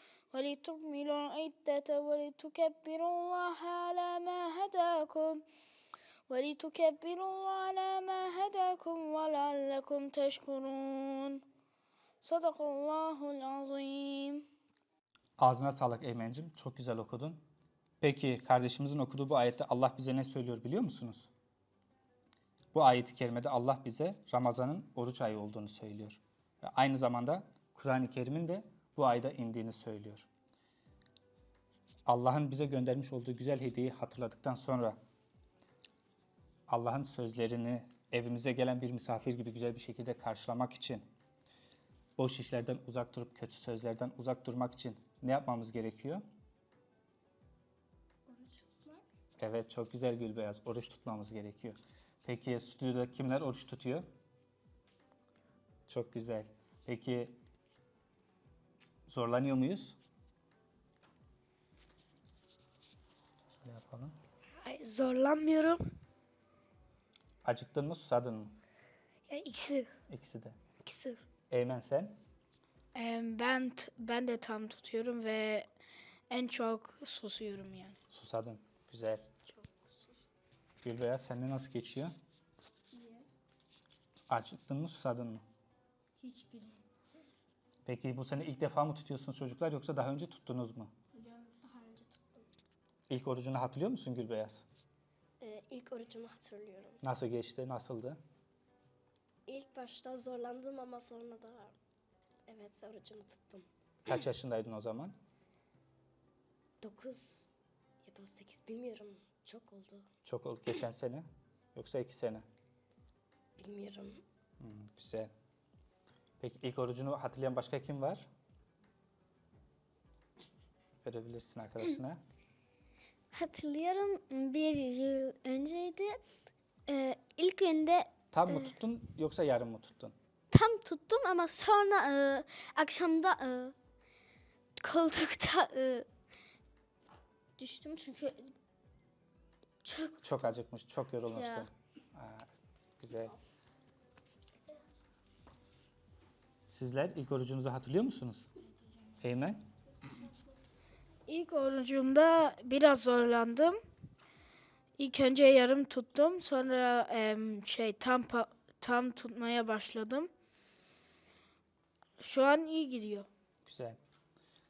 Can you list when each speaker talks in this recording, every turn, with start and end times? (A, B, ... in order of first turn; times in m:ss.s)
0:00.3-0:05.4 A
0:06.3-0:11.4 A
0:12.2-0:14.4 A
0:15.4-0:17.4 B
0:18.0-0:21.3 B
0:22.7-0:30.3 B
0:32.0-0:35.0 B
0:36.7-0:41.0 B
0:42.2-0:46.2 B
0:48.4-0:48.9 C
0:49.4-0:54.1 B
0:55.9-0:57.3 B
0:59.1-1:00.0 B
1:03.6-1:04.1 B
1:04.6-1:05.8 D
1:07.4-1:08.6 B
1:09.3-1:09.9 D
1:10.1-1:10.6 B
1:10.8-1:11.2 D
1:11.5-1:12.2 B
1:12.9-1:15.7 A
1:16.3-1:18.0 A
1:18.1-1:19.3 B
1:20.8-1:22.1 B
1:24.3-1:25.4 B
1:26.2-1:26.8 A
1:27.8-1:30.9 B
1:31.1-1:32.2 A
1:33.1-1:34.6 B
1:35.4-1:37.0 C
1:37.0-1:38.2 B
1:39.5-1:41.7 C
1:42.5-1:43.6 C
1:44.0-1:45.2 B
1:46.8-1:47.5 C
1:48.0-1:50.1 C
1:50.2-1:52.4 B
1:53.6-1:54.2 C
1:54.6-1:55.3 B
1:56.4-1:58.3 B
2:01.0-2:02.2 B
2:03.3-2:06.2 E
2:06.9-2:08.6 E
2:08.3-2:10.1 B
2:10.5-2:13.7 E
2:14.8-2:16.1 E
2:17.6-2:18.5 E
2:19.8-2:20.5 E
2:20.2-2:22.5 B
2:21.3-2:21.7 E
2:23.0-2:23.3 B
2:26.7-2:28.5 B
2:29.2-2:29.7 B
2:31.2-2:33.8 A
2:35.0-2:40.3 A
2:42.2-2:43.3 A
2:43.6-2:44.0 B